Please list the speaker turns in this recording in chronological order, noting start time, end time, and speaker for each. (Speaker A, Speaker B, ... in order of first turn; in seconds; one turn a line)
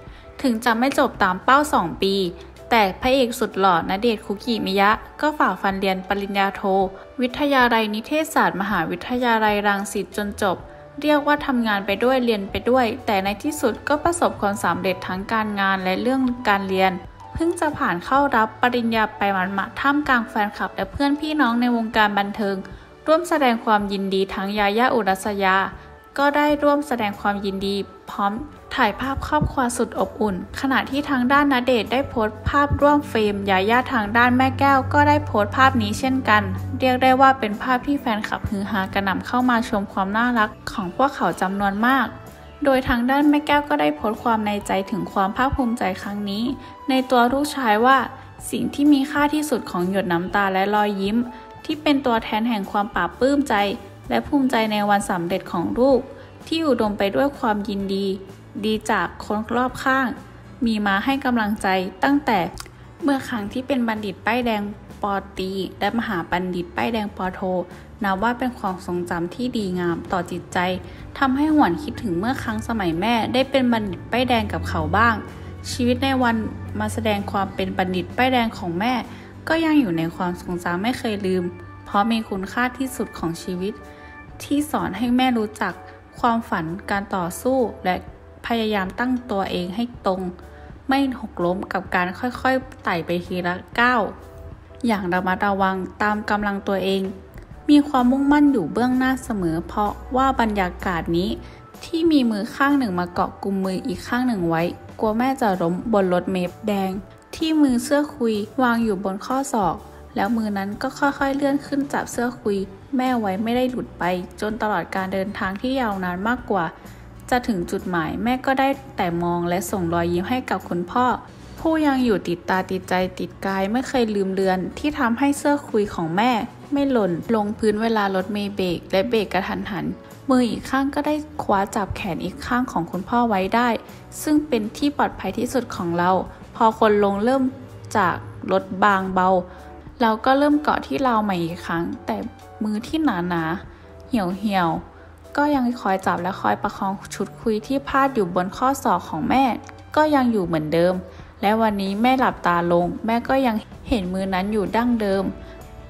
Speaker A: 0.4-83.8
Speaker A: 84.4-90.3
Speaker A: 90.9-94.1
Speaker A: 94.8-116.7
Speaker A: 117.3-139.4
Speaker A: 140.0-155.3